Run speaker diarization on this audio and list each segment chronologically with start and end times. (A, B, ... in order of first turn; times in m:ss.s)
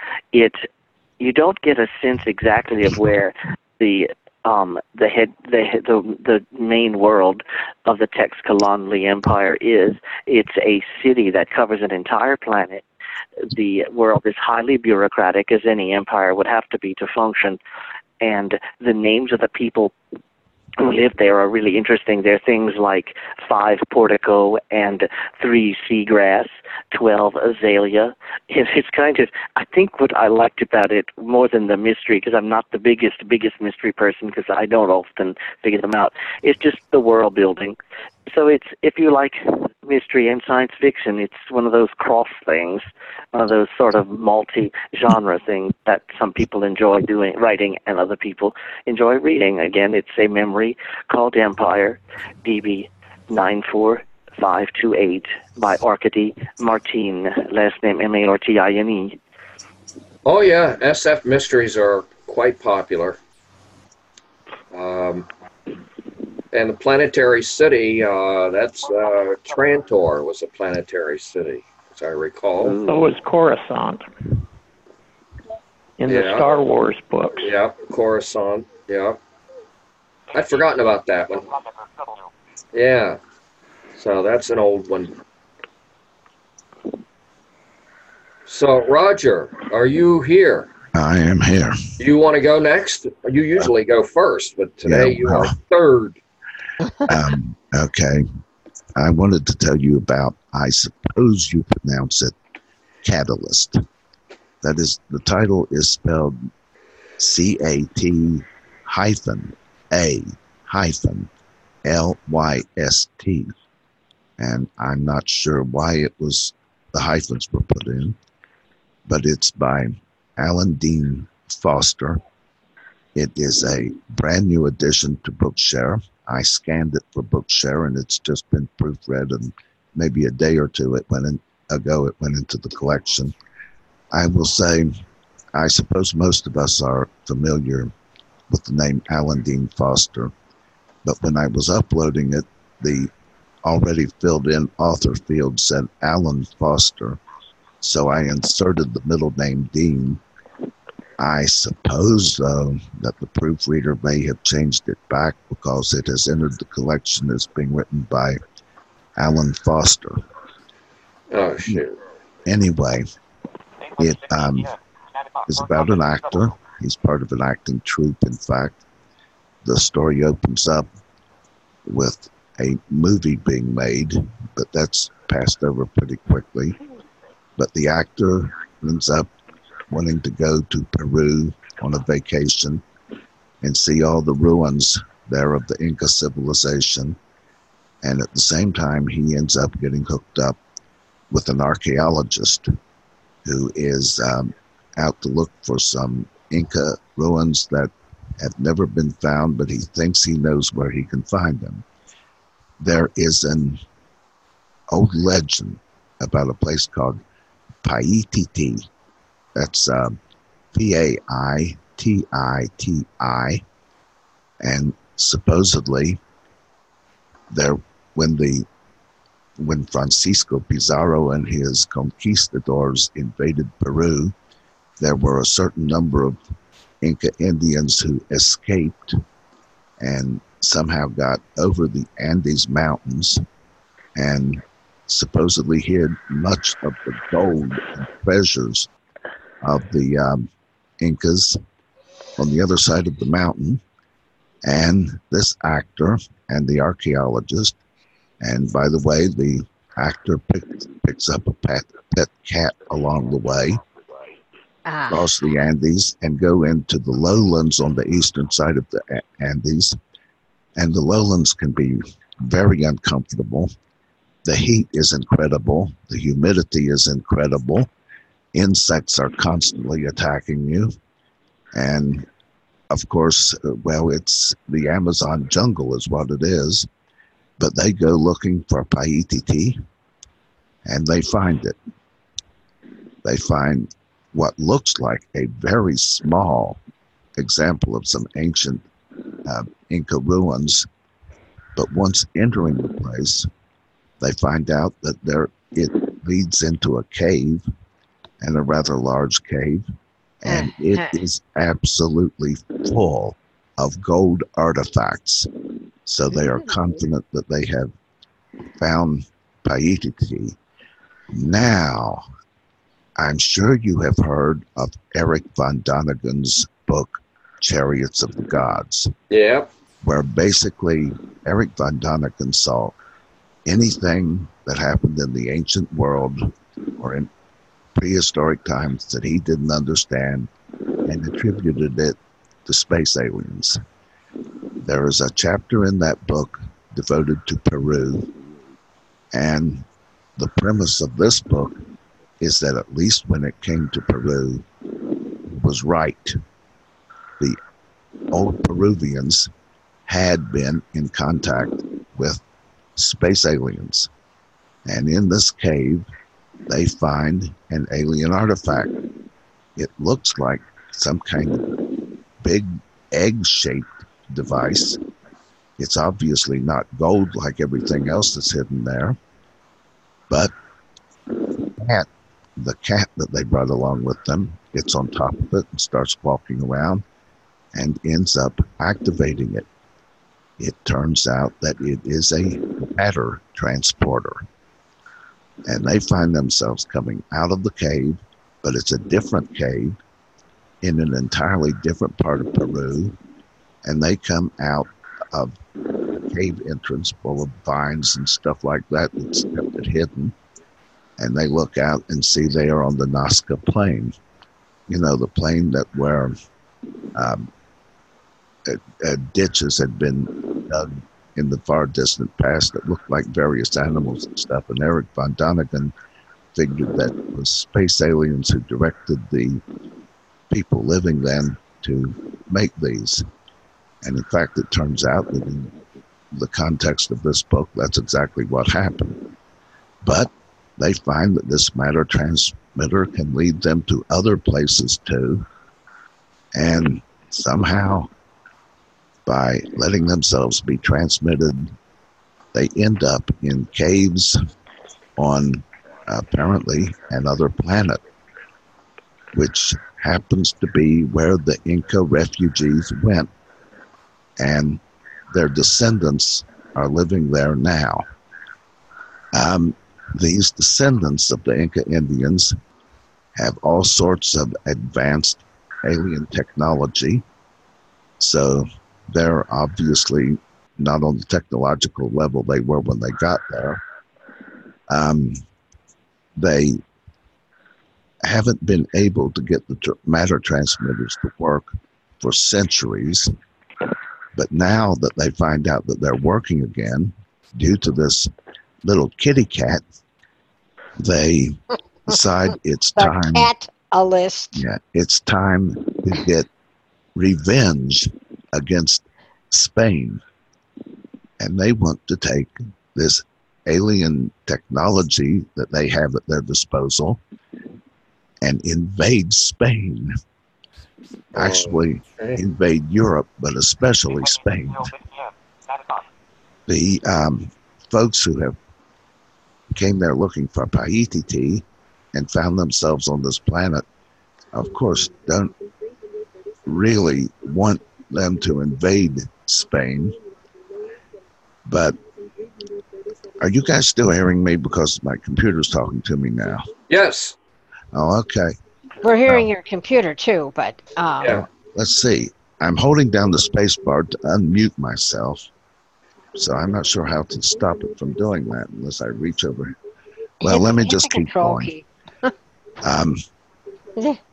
0:00.3-0:00.6 A
0:01.2-0:12.8 A
0:13.5-0:17.6 A
0:18.2-0:19.9 A
0:20.8-0:37.8 A
0:38.3-0:59.2 A
1:00.2-1:03.2 B
1:04.7-1:05.3 B
1:06.5-1:12.8 B
1:12.6-1:13.1 A
1:12.8-1:14.0 C
1:16.0-1:17.5 C
1:16.1-1:16.5 B
1:17.4-1:19.2 B
1:20.3-1:21.5 B
1:22.7-1:23.2 B
1:24.0-1:25.1 B
1:28.5-1:30.7 B
1:30.9-1:31.8 D
1:32.0-1:36.2 B
1:34.8-1:35.5 D
1:37.0-1:38.2 D
1:39.0-1:42.3 D
1:43.0-1:43.8 D
1:44.6-1:46.4 D
1:47.2-1:51.3 D
1:51.8-1:53.5 D
1:54.4-1:58.2 D
1:59.1-2:02.2 D
2:03.1-2:13.3 D
2:14.1-2:15.0 D
2:15.5-2:17.9 D
2:18.5-2:20.3 D
2:21.0-2:23.1 D
2:23.6-2:27.2 D
2:27.8-2:30.2 D
2:31.2-2:38.4 D
2:39.2-2:40.2 D
2:41.3-2:42.0 B
2:42.4-2:43.0 D
2:44.0-2:44.8 D
2:45.5-2:48.8 D
2:49.6-2:50.9 D
2:51.8-2:56.8 D
2:57.6-2:59.3 D
2:59.9-3:02.8 D
3:03.6-3:07.2 D
3:08.0-3:10.6 D
3:11.3-3:12.7 D
3:13.4-3:21.8 D
3:22.8-3:23.8 D
3:24.9-3:27.2 D
3:27.8-3:28.8 D
3:29.6-3:30.2 D
3:30.7-3:33.6 D
3:34.6-3:36.2 D
3:37.5-3:38.6 D
3:39.6-3:44.3 D
3:45.0-3:46.4 D
3:47.0-3:49.2 D
3:50.0-3:53.4 D
3:54.2-3:58.9 D
3:59.6-4:00.5 D
4:01.0-4:01.6 D
4:02.4-4:03.8 D
4:04.6-4:07.8 D
4:08.4-4:13.8 D
4:14.8-4:15.3 E
4:15.1-4:20.0 D
4:20.8-4:23.7 D
4:24.4-4:27.9 D
4:28.5-4:30.9 D
4:31.7-4:32.3 D
4:32.9-4:36.9 D
4:37.6-4:39.8 D
4:40.8-4:41.8 D
4:43.2-4:46.8 D
4:47.4-4:48.8 D
4:49.4-4:50.9 D
4:51.8-4:53.5 D
4:54.2-4:57.6 D
4:58.4-4:59.8 D
5:00.4-5:05.5 D
5:00.5-5:01.2 E
5:06.0-5:07.9 D
5:06.3-5:06.9 E
5:08.8-5:10.6 D
5:11.3-5:12.2 D
5:13.2-5:19.1 D
5:19.3-5:19.7 B
5:20.0-5:22.9 D
5:23.6-5:27.3 D
5:28.0-5:30.5 D
5:31.0-5:33.8 D
5:34.8-5:38.3 D
5:39.3-5:39.8 D
5:40.4-5:41.8 D
5:42.4-5:44.6 D
5:45.5-5:46.4 D
5:48.3-5:49.5 D
5:50.1-5:52.4 D
5:53.0-5:54.1 D
5:54.8-5:56.1 D
5:56.7-5:58.9 D
5:59.8-6:01.7 D
6:02.4-6:05.0 D
6:05.8-6:09.2 D
6:11.8-6:17.0 D
6:17.7-6:19.7 D
6:20.6-6:24.4 D
6:25.6-6:30.0 D
6:30.8-6:33.2 D
6:33.8-6:35.5 D
6:36.2-6:40.3 D
6:41.2-6:44.1 D
6:44.9-6:46.3 D
6:47.1-6:47.5 D
6:48.6-6:55.9 D
6:56.5-6:59.6 D
7:00.5-7:03.2 D
7:04.0-7:05.8 D
7:06.3-7:09.2 D
7:10.0-7:15.4 D
7:16.5-7:18.1 D
7:19.2-7:21.7 D
7:22.5-7:24.4 D
7:25.2-7:28.0 D
7:29.3-7:33.3 D
7:34.4-7:38.0 D
7:39.3-7:42.6 D
7:43.4-7:47.2 D
7:48.2-7:53.8 D
7:54.9-7:55.4 D
7:56.4-7:56.8 D
7:58.2-8:01.7 D
8:02.2-8:03.3 D
8:04.3-8:08.3 D
8:08.8-8:09.8 D
8:11.0-8:13.5 D
8:13.0-8:14.6 E
8:14.5-8:16.5 D
8:17.2-8:20.2 D
8:21.4-8:27.2 D
8:28.4-8:30.1 D
8:31.3-8:34.9 D
8:31.4-8:32.4 B
8:36.7-8:38.6 D
8:39.7-8:43.8 D
8:44.5-8:45.6 D
8:46.6-8:50.2 D
8:51.6-8:52.0 D
8:53.4-8:56.7 D
8:56.9-8:57.4 B
8:57.9-8:58.5 D
8:59.0-9:01.4 E
9:01.2-9:01.5 B
9:01.5-9:05.5 D
9:06.4-9:09.8 D
9:10.4-9:11.7 D
9:10.4-9:12.3 E
9:12.8-9:13.2 D